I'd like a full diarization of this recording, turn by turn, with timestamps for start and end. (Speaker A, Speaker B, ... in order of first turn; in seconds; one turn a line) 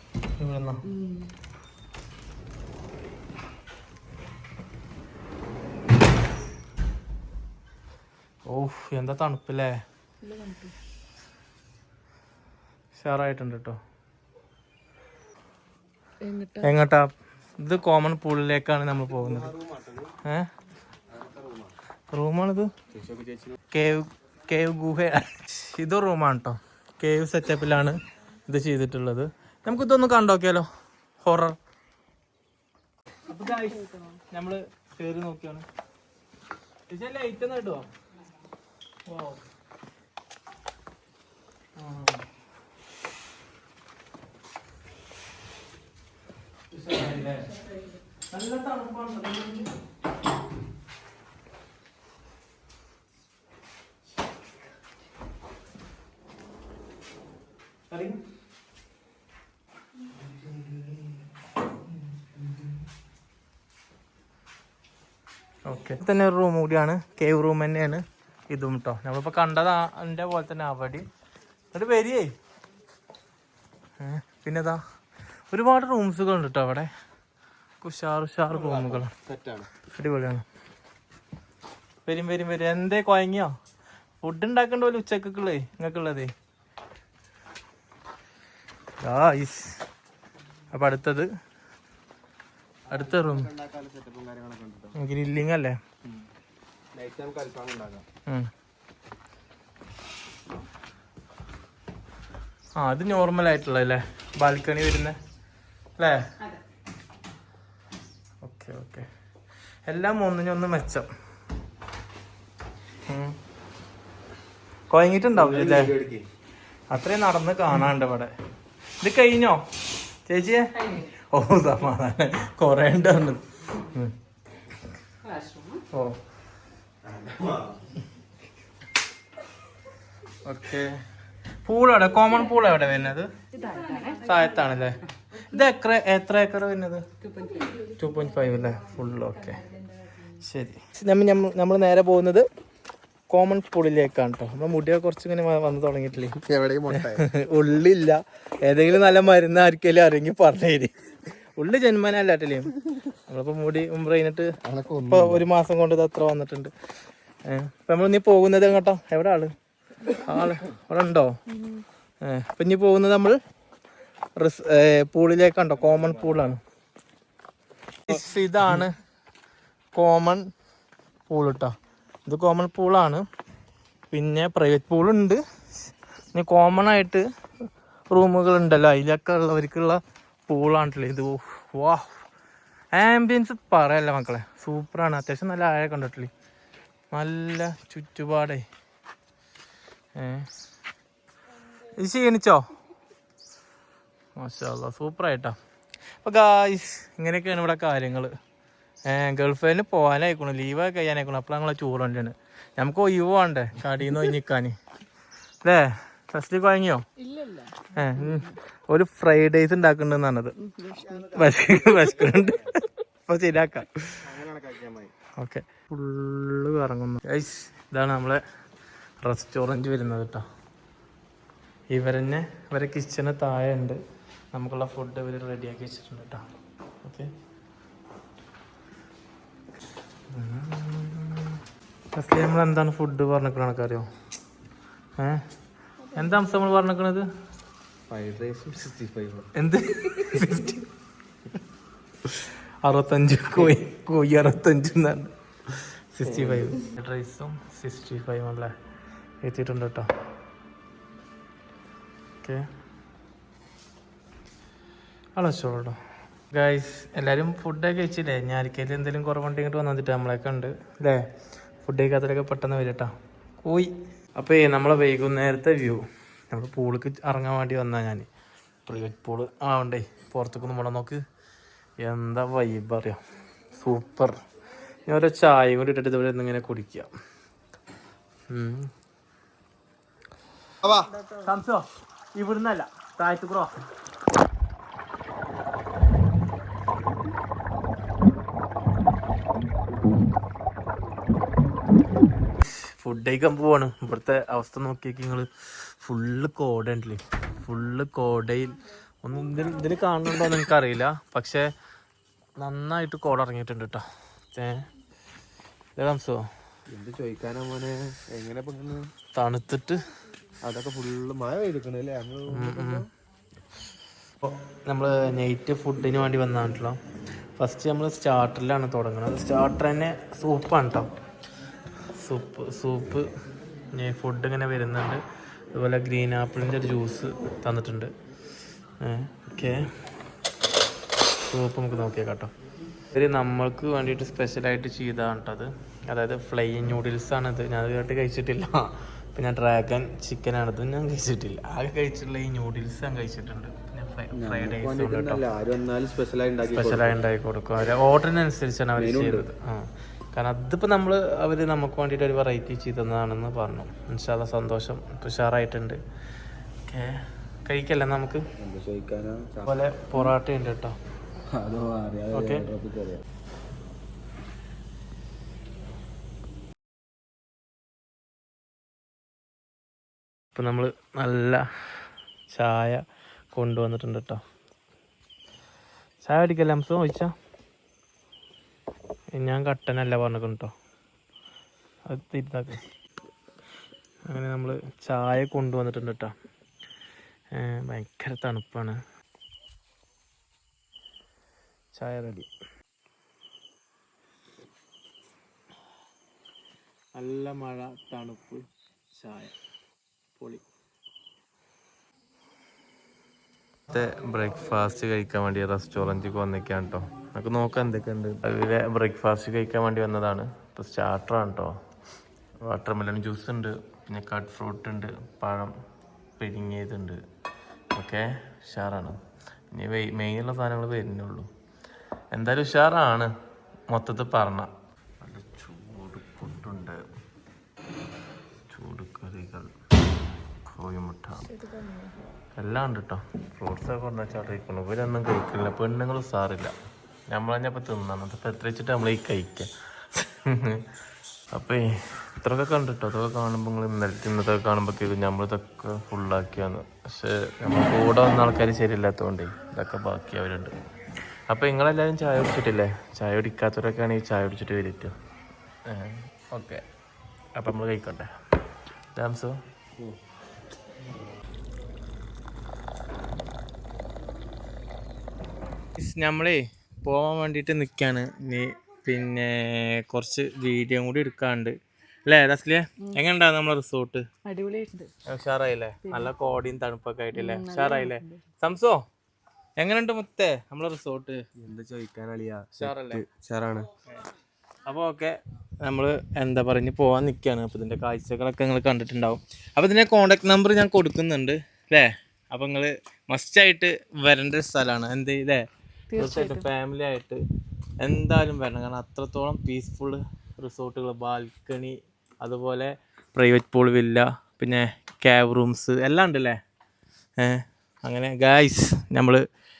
Speaker A: 0.4-0.8
Speaker B: 0.8-1.3
Speaker A: 8.5-9.7
Speaker B: 10.2-10.7
Speaker A: 12.9-13.8
Speaker B: 16.2-16.8
Speaker A: 16.6-19.5
Speaker C: 19.1-20.1
Speaker A: 20.2-20.5
Speaker C: 21.1-21.7
Speaker A: 22.1-22.7
Speaker C: 22.9-23.6
Speaker A: 23.7-30.7
Speaker A: 31.2-31.6
Speaker A: 33.3-35.6
Speaker B: 33.3-34.2
Speaker A: 36.9-37.9
Speaker A: 39.1-39.4
Speaker A: 41.8-42.2
Speaker A: 46.7-47.6
Speaker B: 47.5-47.9
Speaker A: 48.3-49.7
Speaker A: 57.9-58.2
Speaker A: 65.6-71.1
Speaker A: 71.7-72.3
Speaker A: 74.0-74.8
Speaker A: 75.5-76.9
Speaker A: 77.8-79.1
Speaker C: 78.5-79.7
Speaker A: 79.9-80.4
Speaker A: 82.0-83.5
Speaker A: 84.2-86.3
Speaker A: 89.0-89.8
Speaker A: 90.7-91.3
Speaker C: 92.9-95.0
Speaker A: 92.9-93.5
Speaker A: 95.0-95.8
Speaker C: 96.9-98.0
Speaker A: 102.8-105.2
Speaker A: 106.0-106.3
Speaker A: 108.4-109.1
Speaker A: 109.9-111.1
Speaker A: 113.1-113.4
Speaker A: 114.9-115.9
Speaker C: 115.3-116.2
Speaker A: 116.9-118.3
Speaker A: 119.0-119.6
Speaker A: 120.2-124.1
Speaker B: 125.2-125.8
Speaker A: 125.9-126.2
Speaker C: 127.0-127.8
Speaker A: 130.4-131.0
Speaker A: 131.6-133.3
Speaker B: 133.5-134.8
Speaker A: 134.2-137.0
Speaker B: 137.2-137.9
Speaker A: 137.8-139.7
Speaker B: 139.6-140.2
Speaker A: 140.3-142.5
Speaker A: 143.3-150.9
Speaker C: 146.4-147.3
Speaker A: 151.6-156.7
Speaker C: 154.6-155.4
Speaker A: 157.4-159.5
Speaker A: 160.0-161.4
Speaker B: 161.5-161.8
Speaker A: 162.2-163.4
Speaker A: 164.4-166.6
Speaker C: 165.8-166.5
Speaker A: 168.0-169.0
Speaker A: 169.9-170.5
Speaker A: 171.3-171.8
Speaker A: 172.2-173.2
Speaker A: 174.1-177.2
Speaker A: 178.1-182.2
Speaker A: 182.9-186.3
Speaker A: 187.1-188.6
Speaker A: 190.2-190.5
Speaker A: 191.8-192.7
Speaker A: 194.4-195.6
Speaker A: 196.2-198.3
Speaker A: 199.1-204.8
Speaker A: 205.6-207.0
Speaker B: 207.2-208.5
Speaker A: 207.9-210.6
Speaker B: 210.6-211.3
Speaker C: 210.9-212.7
Speaker A: 211.3-214.3
Speaker C: 214.2-215.1
Speaker A: 215.4-218.4
Speaker A: 219.2-220.4
Speaker A: 221.9-224.0
Speaker A: 224.5-226.4
Speaker A: 227.0-227.3
Speaker A: 230.3-231.6
Speaker A: 232.1-234.1
Speaker A: 236.1-237.2
Speaker C: 238.1-239.5
Speaker A: 239.5-240.9
Speaker A: 242.2-248.7
Speaker C: 243.5-243.8
Speaker C: 246.2-246.7
Speaker A: 249.4-250.1
Speaker A: 255.4-256.0
Speaker A: 256.5-261.2
Speaker A: 261.8-268.3
Speaker A: 268.9-271.2
Speaker A: 272.0-273.2
Speaker A: 273.7-274.4
Speaker A: 275.0-277.1
Speaker A: 278.5-278.9
Speaker B: 280.9-281.4
Speaker A: 281.4-283.8
Speaker A: 292.6-301.7
Speaker A: 302.6-304.9
Speaker A: 305.9-306.4
Speaker C: 306.9-309.1
Speaker A: 309.3-310.0
Speaker C: 310.6-313.0
Speaker A: 312.5-313.0
Speaker A: 314.4-317.0
Speaker A: 317.6-321.1
Speaker A: 322.2-323.3
Speaker A: 323.9-328.1
Speaker A: 329.0-329.9
Speaker A: 331.4-332.5
Speaker A: 333.1-345.5
Speaker C: 344.3-347.2
Speaker A: 346.6-356.0
Speaker C: 349.0-349.5
Speaker A: 356.9-358.4
Speaker C: 358.6-359.7
Speaker A: 359.6-360.9
Speaker C: 361.5-363.2
Speaker A: 362.3-362.7
Speaker A: 370.5-371.6
Speaker A: 372.5-373.0
Speaker A: 373.5-374.4
Speaker A: 376.2-377.3
Speaker A: 379.4-380.7
Speaker A: 382.1-382.8
Speaker A: 384.3-386.3
Speaker A: 387.5-389.0
Speaker A: 391.9-392.5
Speaker A: 397.1-399.5
Speaker A: 400.4-400.6
Speaker A: 403.9-411.8
Speaker A: 412.6-415.7
Speaker A: 416.4-417.2
Speaker A: 417.9-419.2
Speaker A: 419.7-421.5
Speaker A: 422.3-423.3
Speaker A: 423.9-427.0
Speaker A: 428.7-429.7
Speaker A: 430.6-431.6
Speaker B: 431.5-432.1
Speaker A: 432.6-436.8
Speaker A: 437.3-440.9
Speaker A: 441.5-450.8
Speaker A: 451.5-455.1
Speaker A: 455.9-456.8
Speaker A: 457.5-458.3
Speaker A: 459.1-459.6
Speaker A: 466.0-471.8
Speaker A: 472.3-474.2
Speaker B: 474.4-475.1
Speaker A: 475.2-479.0
Speaker B: 476.0-476.3
Speaker B: 477.3-478.4
Speaker A: 479.8-481.4
Speaker C: 481.6-483.9
Speaker A: 482.8-483.2
Speaker A: 484.9-495.6
Speaker B: 496.1-496.6
Speaker A: 496.1-497.4
Speaker A: 498.0-506.6
Speaker A: 507.4-509.4